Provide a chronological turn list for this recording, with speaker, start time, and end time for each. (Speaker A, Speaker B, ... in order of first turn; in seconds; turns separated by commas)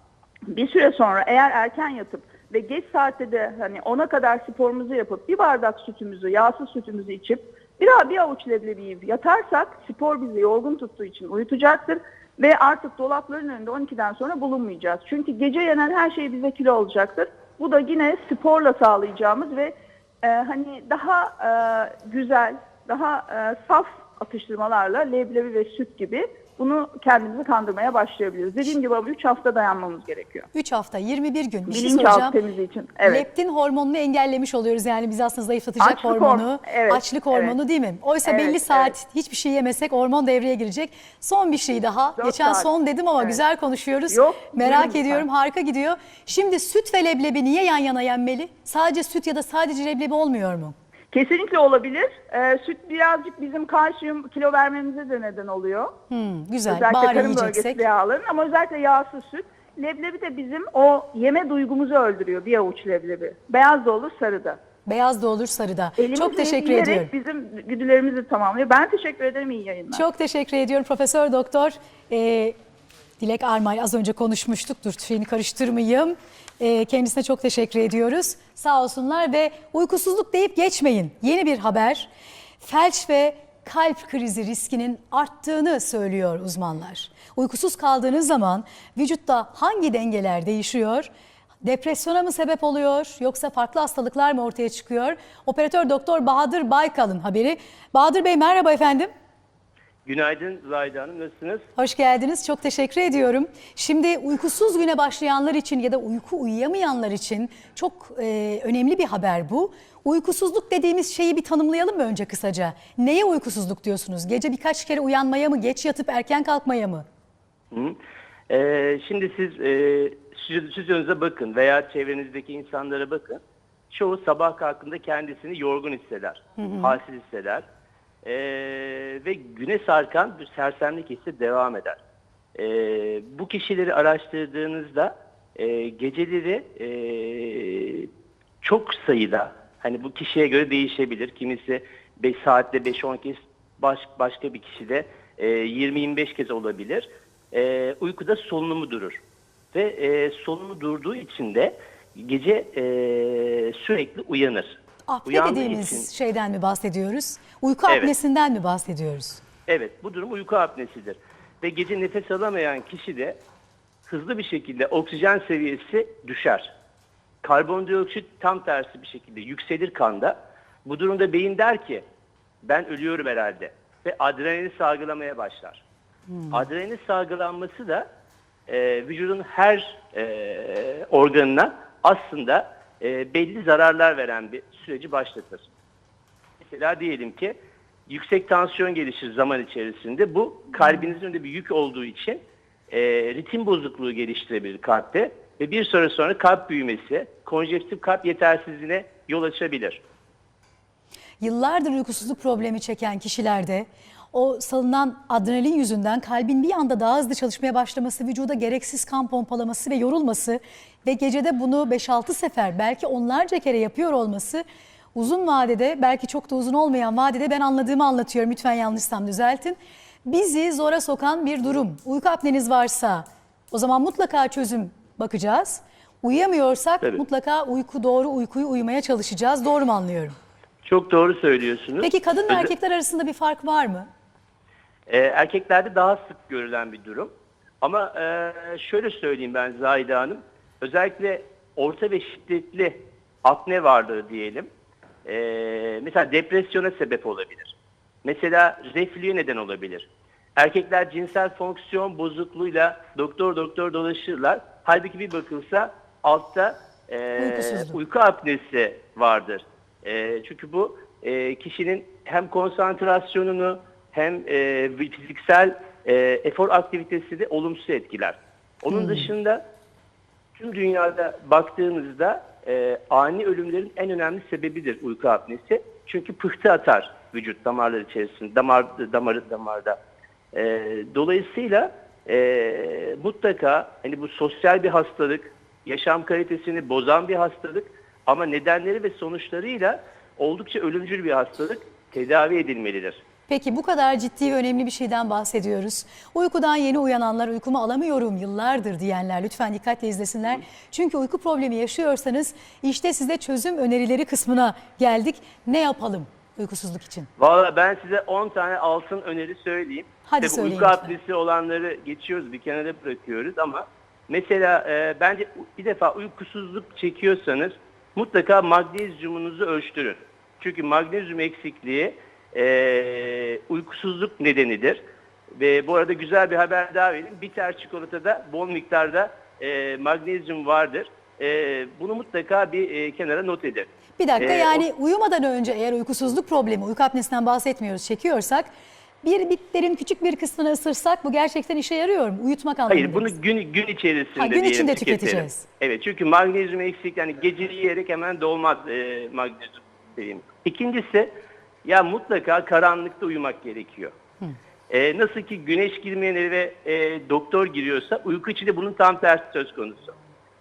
Speaker A: 0.5-30.5, Speaker B: 30.5-32.4, Speaker A: 31.7-33.2, Speaker B: 33.0-50.8, Speaker A: 35.8-37.6, Speaker A: 38.2-38.9, Speaker A: 42.2-43.4, Speaker A: 44.1-45.2, Speaker A: 51.1-55.9, Speaker B: 56.1-57.8, Speaker A: 56.7-64.6, Speaker B: 64.9-67.1, Speaker A: 66.0-70.0, Speaker B: 69.9-72.5, Speaker B: 73.2-82.1, Speaker B: 82.6-91.1, Speaker B: 91.6-99.1, Speaker C: 100.1-101.7, Speaker B: 101.8-117.1, Speaker C: 117.7-118.0, Speaker C: 118.5-127.7, Speaker B: 126.6-127.0, Speaker C: 128.2-132.0, Speaker C: 132.6-138.1, Speaker C: 138.6-149.2, Speaker C: 149.7-156.1, Speaker B: 155.1-159.4, Speaker C: 157.9-158.1, Speaker C: 159.7-163.4, Speaker C: 164.1-166.7, Speaker C: 167.4-172.1, Speaker C: 172.6-175.8, Speaker B: 176.3-176.6, Speaker C: 176.5-178.1, Speaker C: 178.7-185.7, Speaker C: 186.6-187.6, Speaker C: 188.1-192.4, Speaker C: 192.9-200.0, Speaker B: 201.4-214.6, Speaker B: 215.2-230.4, Speaker C: 230.8-232.7, Speaker B: 232.0-234.1, Speaker C: 235.1-237.3, Speaker C: 237.8-244.7, Speaker C: 245.2-269.6, Speaker B: 257.4-258.0, Speaker C: 270.5-280.0, Speaker C: 280.5-293.2, Speaker B: 293.5-307.3, Speaker C: 307.4-325.0, Speaker B: 310.3-311.1, Speaker C: 325.5-333.9, Speaker B: 334.2-338.7, Speaker C: 334.4-334.9, Speaker B: 339.2-343.4, Speaker C: 342.9-354.1, Speaker B: 344.4-345.6, Speaker C: 354.9-360.1